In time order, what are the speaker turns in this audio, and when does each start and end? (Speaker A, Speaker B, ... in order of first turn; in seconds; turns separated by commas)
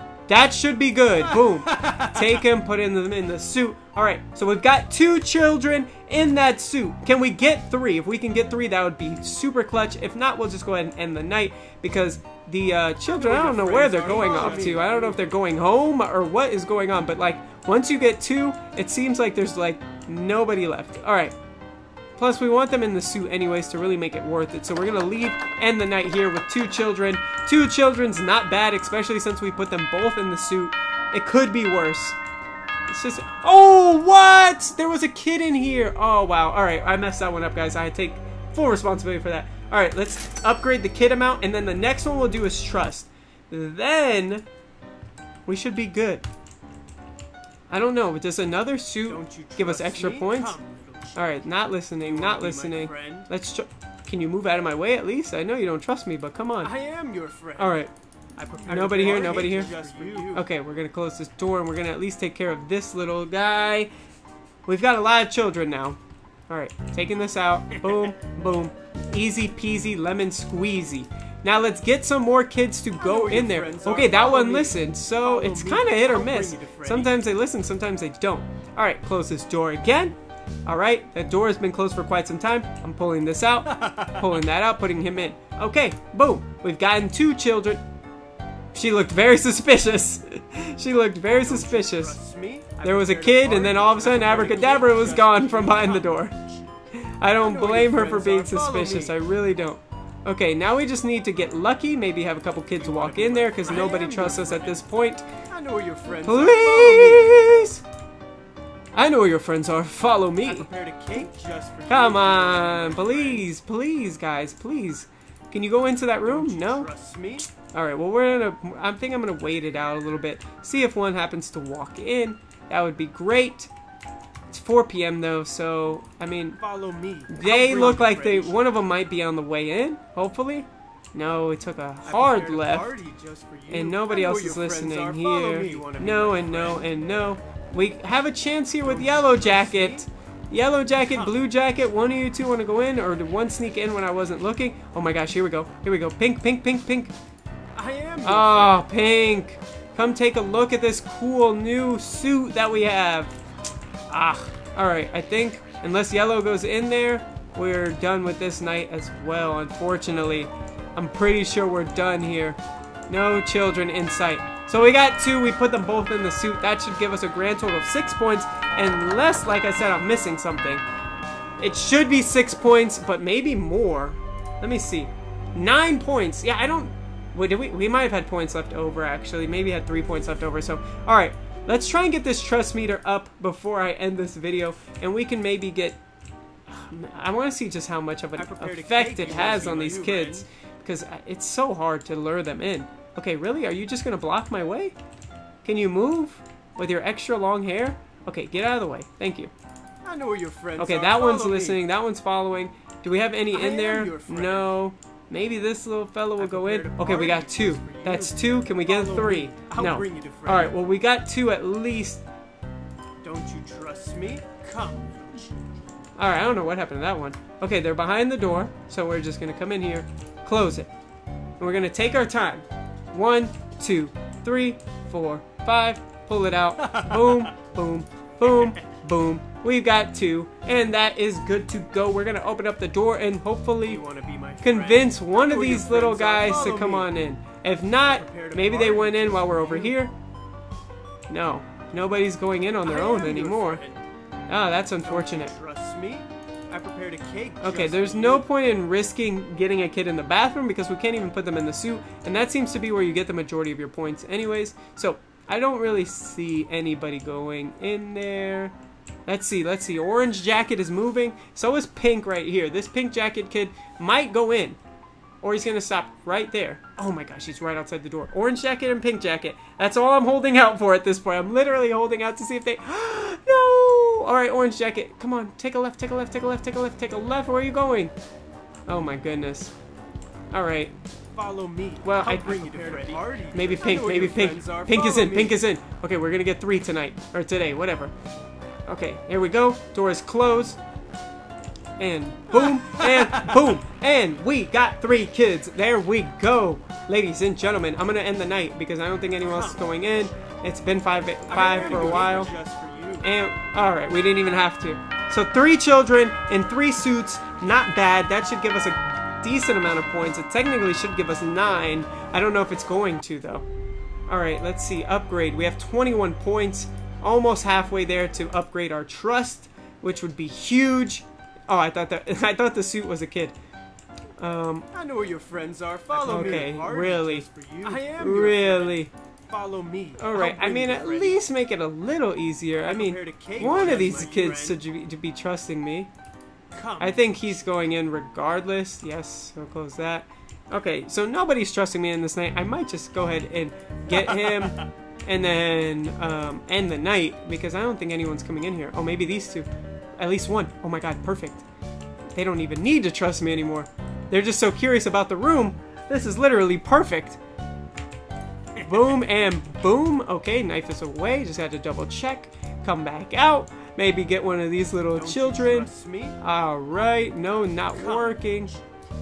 Speaker A: 0.3-21.4, Speaker B: 1.7-2.2, Speaker B: 13.1-15.2, Speaker A: 22.2-32.2, Speaker A: 32.9-44.5, Speaker A: 45.5-46.2, Speaker A: 47.7-50.6, Speaker B: 49.0-51.4, Speaker A: 51.1-56.7, Speaker B: 52.0-53.3, Speaker B: 56.6-57.8, Speaker A: 57.6-57.9, Speaker B: 58.4-60.5, Speaker A: 58.7-63.9, Speaker A: 64.7-66.0, Speaker A: 66.5-80.1, Speaker B: 73.0-77.2, Speaker A: 80.7-87.8, Speaker B: 83.8-84.1, Speaker A: 88.7-92.2, Speaker B: 91.3-96.2, Speaker A: 92.8-96.4, Speaker A: 97.0-105.3, Speaker B: 97.4-99.2, Speaker B: 102.8-104.8, Speaker B: 105.5-107.4, Speaker A: 106.2-107.8, Speaker A: 108.9-110.7, Speaker B: 110.4-113.5, Speaker A: 111.9-116.9, Speaker B: 116.2-117.5, Speaker A: 117.7-123.7, Speaker A: 124.5-126.6, Speaker B: 126.6-128.6, Speaker A: 127.3-132.9, Speaker B: 132.1-136.9, Speaker A: 133.7-147.1, Speaker B: 138.8-140.1, Speaker B: 147.8-148.8, Speaker A: 148.2-153.3, Speaker A: 154.1-170.8, Speaker A: 171.6-186.0, Speaker A: 186.7-194.9, Speaker B: 188.4-190.4, Speaker A: 195.6-199.5, Speaker B: 200.0-201.8, Speaker A: 200.8-212.2, Speaker B: 203.5-204.7, Speaker B: 206.4-210.8, Speaker B: 213.2-215.9, Speaker A: 216.2-220.9, Speaker A: 221.6-234.0, Speaker B: 226.8-227.5, Speaker B: 228.4-228.8, Speaker B: 233.9-237.1, Speaker A: 234.6-240.1, Speaker B: 238.0-240.0, Speaker A: 241.3-243.8, Speaker B: 242.8-244.0, Speaker A: 244.5-245.5, Speaker B: 245.0-248.4, Speaker A: 247.6-258.8, Speaker A: 259.3-264.8, Speaker A: 265.4-278.1, Speaker A: 278.9-279.7, Speaker A: 280.5-280.9, Speaker B: 281.4-285.6, Speaker A: 282.0-288.1, Speaker A: 288.9-290.8, Speaker A: 292.0-302.5, Speaker B: 292.5-293.8, Speaker B: 299.4-300.1, Speaker B: 301.5-303.2, Speaker A: 303.2-313.6, Speaker A: 314.3-323.6, Speaker A: 324.4-324.9, Speaker B: 324.9-331.4, Speaker A: 326.1-329.1, Speaker A: 330.2-336.1, Speaker B: 332.8-334.8, Speaker B: 336.7-337.6, Speaker A: 337.0-351.6, Speaker B: 344.1-344.9, Speaker A: 352.4-357.4, Speaker A: 358.8-368.7, Speaker B: 365.1-366.4, Speaker B: 367.9-368.8